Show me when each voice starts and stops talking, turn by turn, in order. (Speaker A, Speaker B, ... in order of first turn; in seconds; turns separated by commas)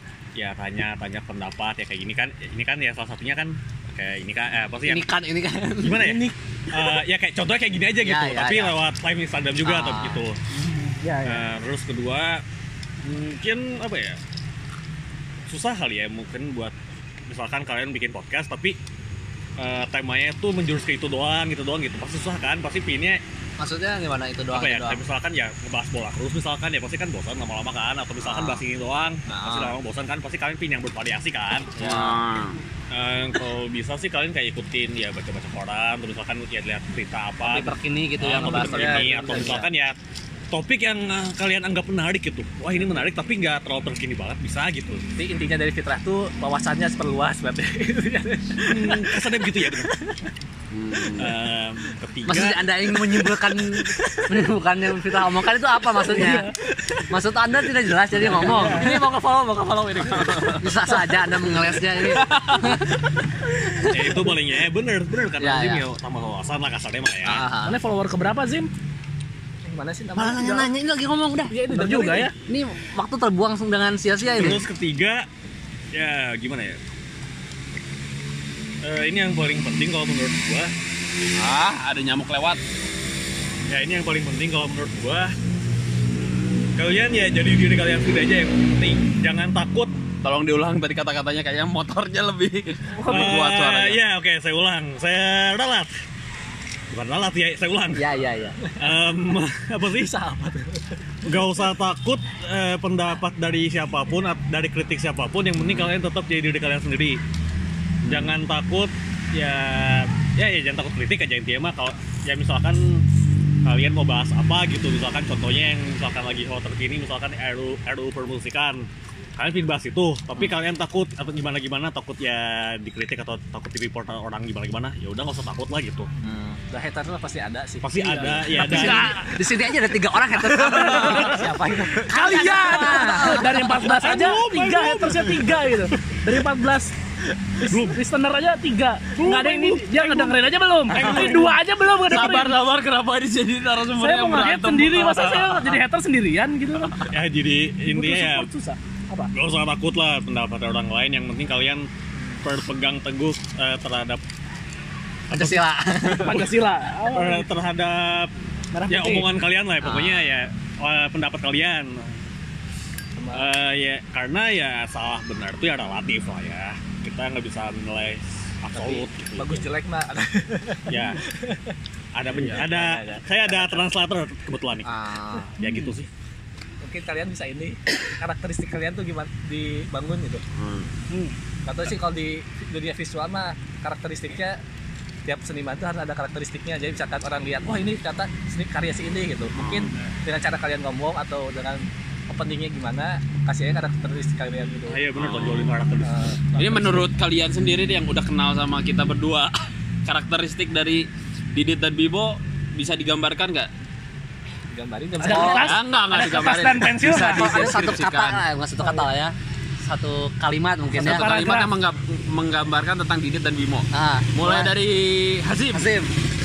Speaker A: 0.3-5.1, Speaker B: 4.8-6.2, Speaker A: 5.8-10.4, Speaker B: 8.0-8.7, Speaker B: 9.6-10.2, Speaker C: 10.6-11.4, Speaker A: 11.2-12.4, Speaker A: 13.0-14.2, Speaker A: 15.5-16.7, Speaker A: 17.3-18.8, Speaker A: 19.6-23.2, Speaker B: 23.6-25.0, Speaker A: 24.5-31.8, Speaker B: 28.2-28.6, Speaker B: 29.3-29.7, Speaker D: 31.8-32.6, Speaker B: 31.8-32.2, Speaker A: 32.9-40.0, Speaker B: 37.4-39.6, Speaker E: 38.2-39.7, Speaker A: 40.5-45.0, Speaker E: 45.2-49.9, Speaker A: 48.6-49.9, Speaker D: 50.7-51.3, Speaker A: 51.1-52.9, Speaker B: 52.2-56.5, Speaker C: 56.1-56.5, Speaker B: 57.1-59.0, Speaker E: 58.2-61.2, Speaker C: 58.5-58.8, Speaker D: 60.1-60.6, Speaker B: 60.6-63.0, Speaker D: 62.1-62.8, Speaker A: 63.8-67.5, Speaker B: 65.4-65.8, Speaker B: 67.2-67.8, Speaker C: 67.6-68.7, Speaker E: 69.7-70.7, Speaker B: 70.2-71.5, Speaker E: 71.5-72.3, Speaker C: 71.7-72.3, Speaker B: 72.5-74.6, Speaker A: 74.3-75.2, Speaker A: 75.9-76.8, Speaker A: 78.8-80.7, Speaker D: 81.4-82.6, Speaker A: 83.7-85.3, Speaker A: 86.8-89.9, Speaker D: 90.2-94.0, Speaker C: 93.0-93.4, Speaker A: 93.0-95.9, Speaker A: 96.9-98.0, Speaker B: 97.9-98.6, Speaker A: 98.8-100.1, Speaker E: 99.9-100.9, Speaker A: 101.2-107.2, Speaker A: 108.0-113.0, Speaker A: 113.7-118.8, Speaker A: 119.4-126.1, Speaker E: 126.7-128.8, Speaker A: 127.8-129.1, Speaker C: 128.6-129.4, Speaker B: 128.6-131.5, Speaker C: 130.6-131.3, Speaker D: 130.7-131.3, Speaker E: 130.8-133.4, Speaker B: 132.1-133.4, Speaker C: 132.1-136.9, Speaker A: 133.0-136.4, Speaker A: 137.6-138.0, Speaker C: 137.7-142.6, Speaker A: 139.2-140.4, Speaker A: 140.9-141.6, Speaker D: 142.1-145.8, Speaker C: 144.0-147.0, Speaker D: 146.8-147.1, Speaker A: 147.1-148.5, Speaker C: 147.9-149.3, Speaker A: 149.3-151.9, Speaker A: 152.4-154.2, Speaker A: 155.3-156.5, Speaker B: 155.3-156.4, Speaker C: 156.1-157.5, Speaker A: 157.1-158.3, Speaker C: 158.7-159.3, Speaker A: 158.9-162.2, Speaker B: 159.8-160.3, Speaker E: 163.2-163.5, Speaker A: 163.3-169.7, Speaker E: 168.7-171.7, Speaker A: 170.9-171.2, Speaker A: 172.1-175.0, Speaker E: 172.3-173.8, Speaker B: 174.8-175.5, Speaker A: 175.6-176.1, Speaker C: 175.6-175.9, Speaker E: 176.8-180.4, Speaker D: 180.5-180.9, Speaker C: 181.1-181.4, Speaker E: 181.6-184.6, Speaker E: 185.2-195.0, Speaker D: 189.5-189.9, Speaker A: 194.9-196.4, Speaker D: 195.2-195.8, Speaker E: 196.0-197.0, Speaker D: 196.6-199.5, Speaker D: 200.1-203.7, Speaker E: 204.7-205.8, Speaker C: 205.2-207.7, Speaker B: 205.3-205.7, Speaker D: 205.3-208.4, Speaker B: 207.3-211.3, Speaker D: 210.9-215.9, Speaker C: 211.0-211.7, Speaker B: 213.9-214.7, Speaker B: 215.7-216.1